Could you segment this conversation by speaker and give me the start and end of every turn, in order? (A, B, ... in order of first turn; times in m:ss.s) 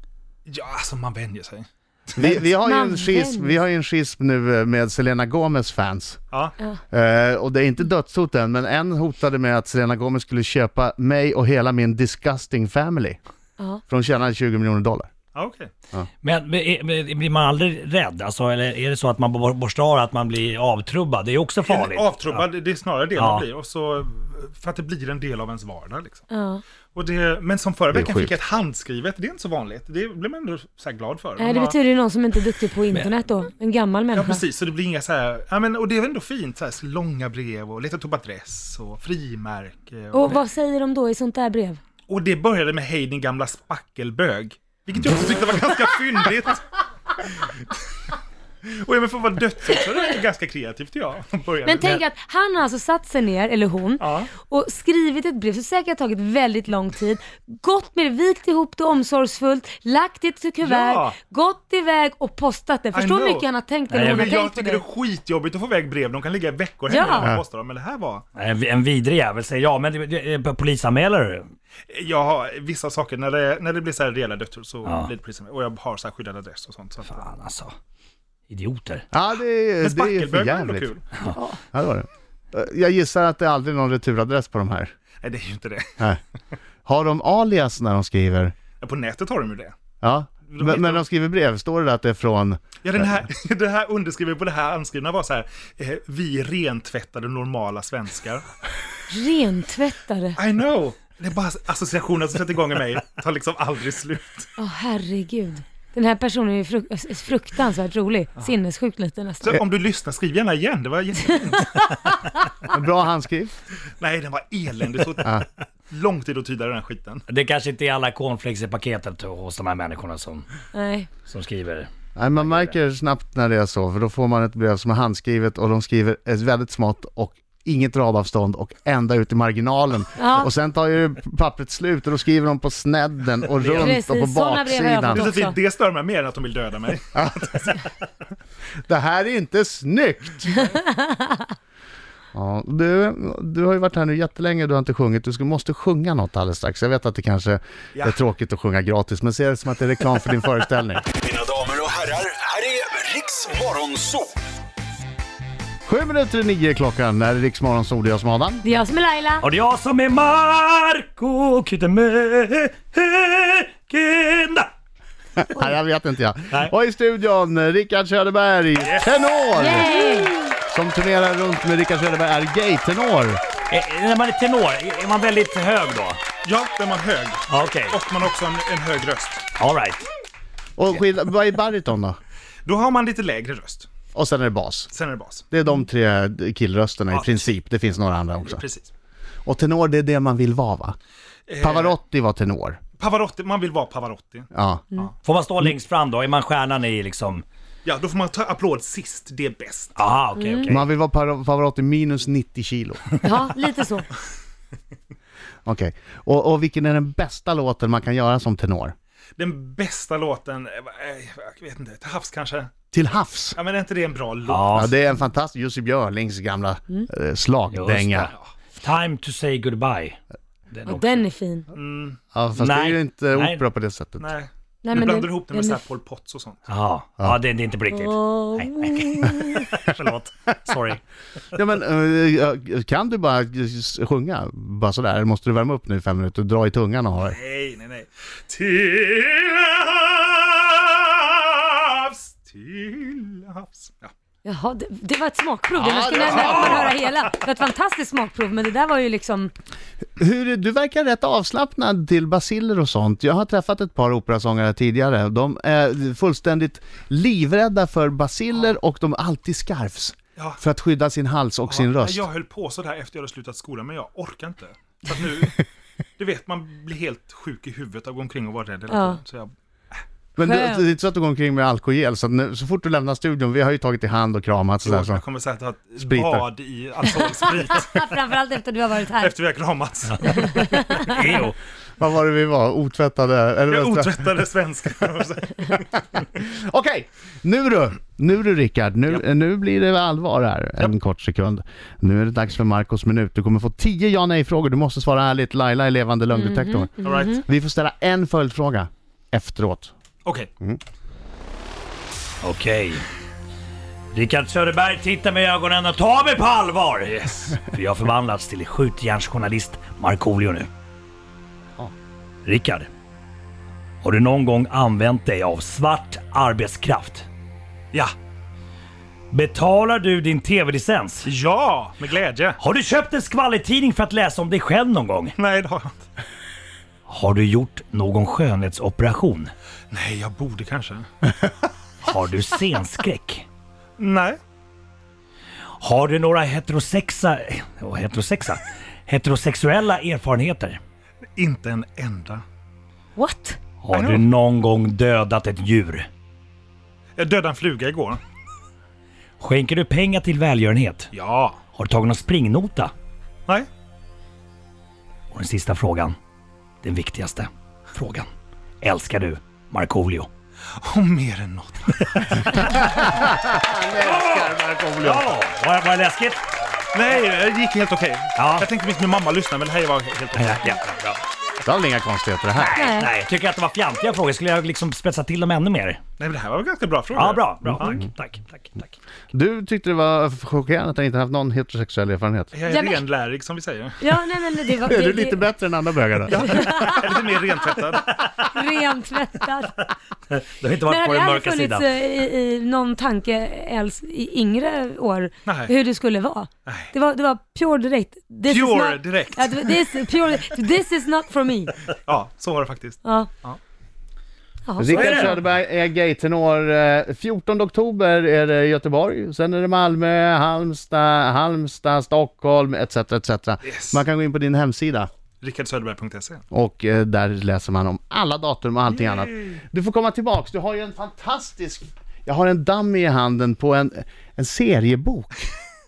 0:00.5-0:02.4 A
0:02.2-0:06.2 B
0:02.6-0:03.6 C
0:06.9-0:13.2 B
0:13.9-0:15.1 B
0:15.3-0:15.7 A
0:16.2-0:22.4 D
0:21.6-0:26.2 A
0:23.2-0:23.5 D
0:26.3-0:26.6 C
0:27.0-0:31.8 A
0:27.9-0:28.3 B
0:31.4-0:34.4 C
0:34.1-0:40.4 A
0:40.1-0:41.8 C
0:42.1-0:47.8 A
0:48.6-0:52.0 A
0:51.6-1:04.8 C
0:54.0-0:54.3 A
1:00.6-1:01.2 A
1:02.9-1:03.4 A
1:03.9-1:04.3 D
1:04.1-1:08.3 A
1:06.9-1:07.3 C
1:08.4-1:11.5 D
1:11.9-1:17.2 A
1:14.8-1:15.1 D
1:17.0-1:17.7 D
1:18.5-1:19.1 D
1:19.1-1:20.9 B
1:19.8-1:21.0 A
1:21.6-1:24.9 B
1:25.2-1:26.0 A
1:26.8-1:28.5 B
1:28.8-1:29.8 A
1:30.0-1:33.2 B
1:30.5-1:31.0 A
1:32.8-1:38.5 A
1:39.1-1:40.4 C
1:40.4-1:44.5 A
1:44.6-1:49.6 C
1:49.4-1:51.8 A
1:52.7-1:53.5 B
1:54.0-1:57.2 A
1:57.3-2:00.5 D
2:00.7-2:01.1 C
2:01.2-2:02.7 D
2:02.2-2:15.3 B
2:10.2-2:10.5 C
2:13.6-2:14.0 A
2:13.8-2:15.6 C
2:15.1-2:17.9 A
2:17.2-2:17.5 B
2:18.9-2:20.8 B
2:20.7-2:21.4 C
2:22.3-2:31.1 B
2:28.0-2:28.2 A
2:31.2-2:34.3 E
2:35.9-2:38.6 B
2:38.6-2:39.5 C
2:39.4-2:44.7 D
2:45.4-2:49.9 B
2:48.8-2:49.2 A
2:49.6-2:50.4 C
2:50.7-2:53.4 B
2:53.7-2:56.2 D
2:56.4-2:59.4 A
2:57.5-2:58.0 D
2:59.6-3:00.1 D
3:00.8-3:02.2 B
3:02.6-3:03.9 A
3:04.1-3:04.9 B
3:04.9-3:05.4 A
3:05.5-3:08.6 B
3:07.1-3:07.5 A
3:08.5-3:08.9 A
3:09.5-3:11.0 B
3:11.5-3:12.0 A
3:11.6-3:12.8 B
3:13.0-3:15.1 A
3:14.5-3:14.8 B
3:15.2-3:17.4 D
3:17.8-3:20.0 A
3:20.0-3:20.8 D
3:20.4-3:20.7 C
3:20.7-3:23.1 B
3:23.2-3:24.1 C
3:25.7-3:29.0 B
3:29.4-3:32.7 A
3:32.9-3:33.6 B
3:33.6-3:34.9 A
3:34.5-3:34.9 D
3:34.7-3:38.3 B
3:37.7-3:41.3 D
3:40.9-3:41.7 C
3:41.7-3:42.2 A
3:42.3-3:44.3 B
3:42.6-3:43.6 D
3:44.2-3:46.6 A
3:44.8-3:45.8 C
3:46.7-3:51.0 D
3:47.9-3:49.7 C
3:50.0-3:50.3 A
3:51.5-3:57.4 B
3:57.2-4:04.1 A
4:04.4-4:09.5 C
4:05.9-4:07.0 A
4:10.2-4:22.3 B
4:21.7-4:25.6 A
4:26.2-4:29.5 A
4:28.9-4:29.2 C
4:30.4-4:35.2 B
4:30.4-4:30.9 C
4:34.8-4:38.1 A
4:36.0-4:36.5 B
4:37.6-4:39.4 C
4:39.2-4:40.6 A
4:40.2-4:41.1 C
4:40.2-4:41.6 D
4:42.0-4:44.3 B
4:43.7-4:46.0 A
4:46.4-4:59.9 B
4:56.3-4:57.4 C
4:57.0-4:57.4 A
5:00.2-5:00.5 A
5:02.4-5:03.0 D
5:04.1-5:10.7 D
5:07.0-5:07.6 A
5:12.4-5:12.9 D
5:14.0-5:17.3 D
5:19.3-5:21.3 D
5:21.2-5:22.6 A
5:22.6-5:25.3 D
5:25.4-5:26.1 A
5:27.1-5:29.5 D
5:29.9-5:31.1 A
5:32.0-5:33.5 D
5:34.0-5:34.4 A
5:35.8-5:40.8 D
5:41.4-5:42.4 A
5:43.2-5:43.6 C
5:43.8-5:46.1 D
5:43.9-5:44.2 A
5:47.2-5:48.2 A
5:49.4-5:51.1 D
5:51.1-5:51.6 A
5:51.7-5:52.9 D
5:55.3-5:56.2 D
5:56.8-5:58.3 D
5:58.8-6:00.3 D
6:00.8-6:02.7 A
6:02.6-6:03.2 D
6:02.6-6:05.3 B
6:04.0-6:06.4 D
6:06.9-6:10.8 A
6:08.4-6:08.7 D
6:10.4-6:11.2 D
6:11.6-6:12.8 B
6:12.6-6:16.0 D
6:12.7-6:13.2 C
6:16.2-6:18.0 A
6:17.1-6:19.0 D
6:19.3-6:22.5 B
6:22.5-6:24.0 A
6:22.7-6:23.0 C
6:24.0-6:25.5 C
6:24.8-6:26.9 B
6:26.3-6:27.1 C
6:26.3-6:28.1 A
6:28.1-6:28.4 D
6:28.5-6:29.8 C
6:30.3-6:31.9 D
6:30.8-6:41.8 C
6:35.5-6:35.7 A
6:36.7-6:36.9 A
6:38.5-6:39.8 A
6:42.1-6:43.6 A
6:43.0-6:43.3 C
6:44.6-6:45.4 C
6:44.8-6:55.1 B
6:44.9-6:45.3 D
6:53.6-6:54.0 A
6:55.4-6:56.4 A
6:56.5-7:05.5 B
6:58.9-6:59.6 A